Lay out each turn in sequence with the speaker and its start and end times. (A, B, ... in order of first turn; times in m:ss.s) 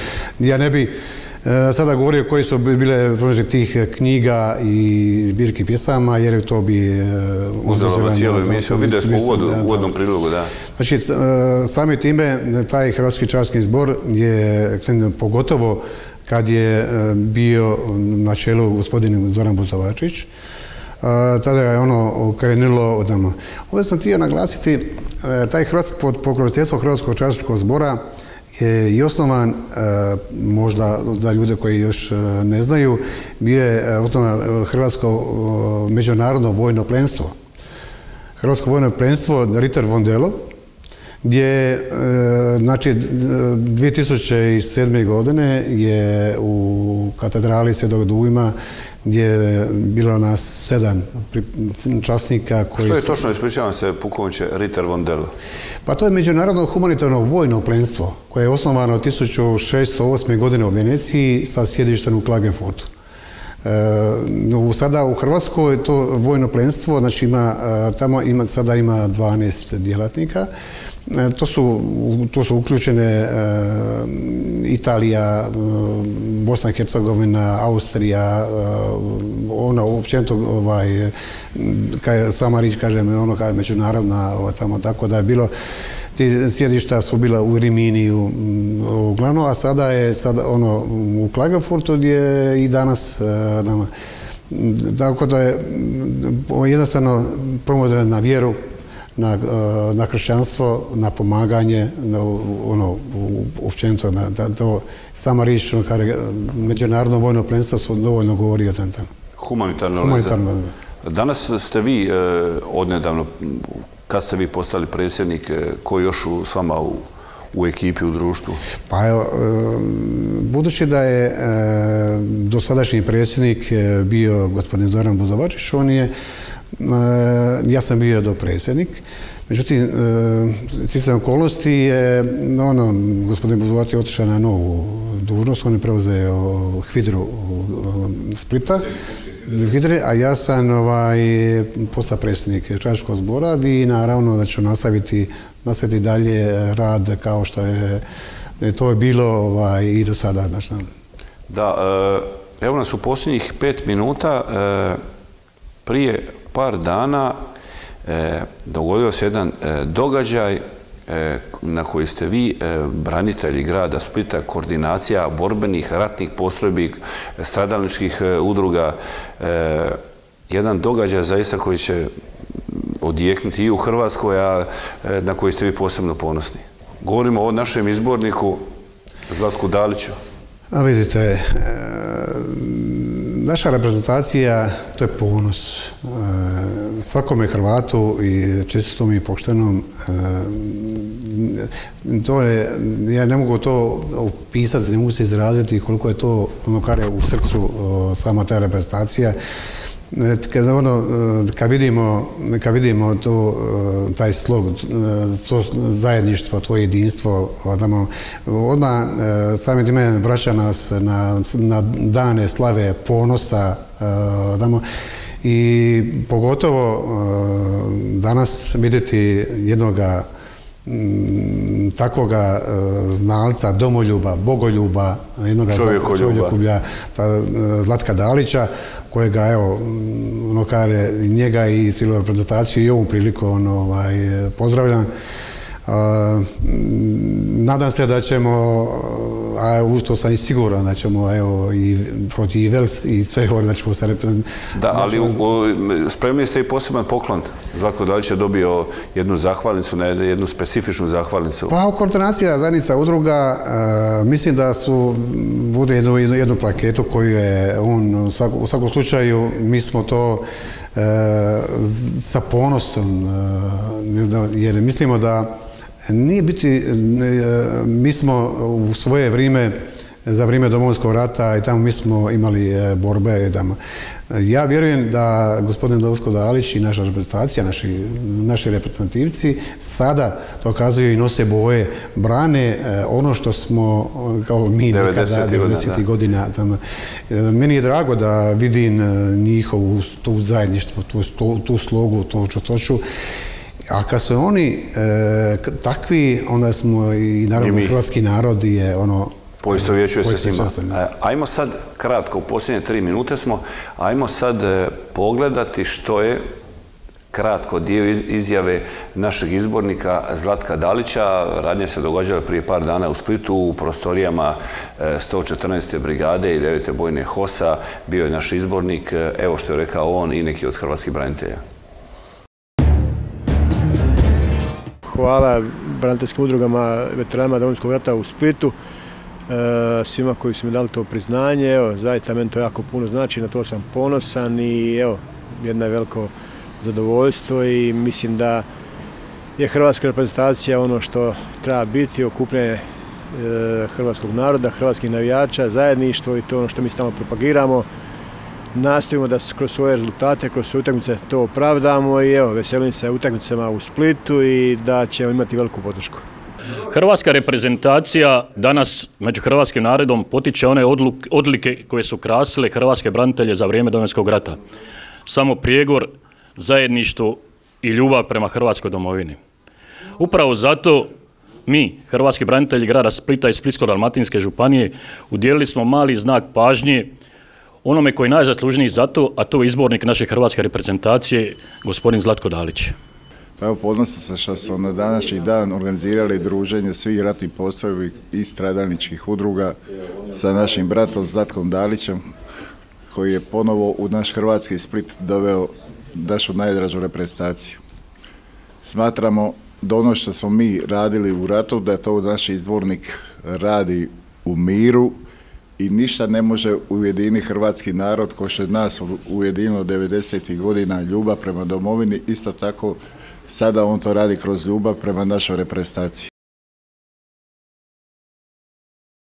0:00.4-0:10.0 A
0:07.7-0:10.5 B
0:10.8-0:20.3 A
0:21.0-0:28.0 A
0:28.6-0:37.4 A
0:38.4-0:40.5 A
0:41.2-0:53.2 A
0:52.8-0:55.3 B
0:55.9-1:02.9 A
1:03.6-1:10.5 A
1:11.1-1:25.5 A
1:26.1-1:33.9 A
1:34.5-1:38.6 A
1:39.2-1:49.1 A
1:49.4-1:50.4 B
1:50.0-1:50.7 A
1:51.0-1:58.6 B
1:58.9-2:06.1 A
2:06.8-2:18.9 A
2:19.4-2:28.0 A
2:28.6-2:30.9 A
2:31.5-2:35.0 B
2:35.8-2:37.4 B
2:38.0-2:58.6 B
2:59.3-3:00.2 B
3:00.7-3:19.4 A
3:20.1-3:34.8 A
3:35.4-3:40.3 A
3:40.8-3:55.1 A
3:45.7-3:46.5 B
3:55.8-4:05.4 A
4:04.7-4:11.7 B
4:11.7-4:33.8 A
4:34.3-4:53.0 A
4:44.9-4:46.0 B
4:53.9-5:01.0 A
4:57.6-4:58.0 B
4:59.6-5:06.4 B
5:07.3-5:21.6 B
5:25.0-5:28.8 C
5:29.5-5:38.7 C
5:39.6-5:47.9 C
5:48.7-5:56.2 C
5:56.7-6:04.6 D
6:05.3-6:09.4 D
6:10.2-6:11.1 D
6:11.7-6:17.1 D
6:17.8-6:23.0 D
6:23.6-6:29.8 E
6:30.3-6:32.2 E
6:33.1-6:37.8 E
6:38.8-6:45.2 E
6:45.8-6:56.3 E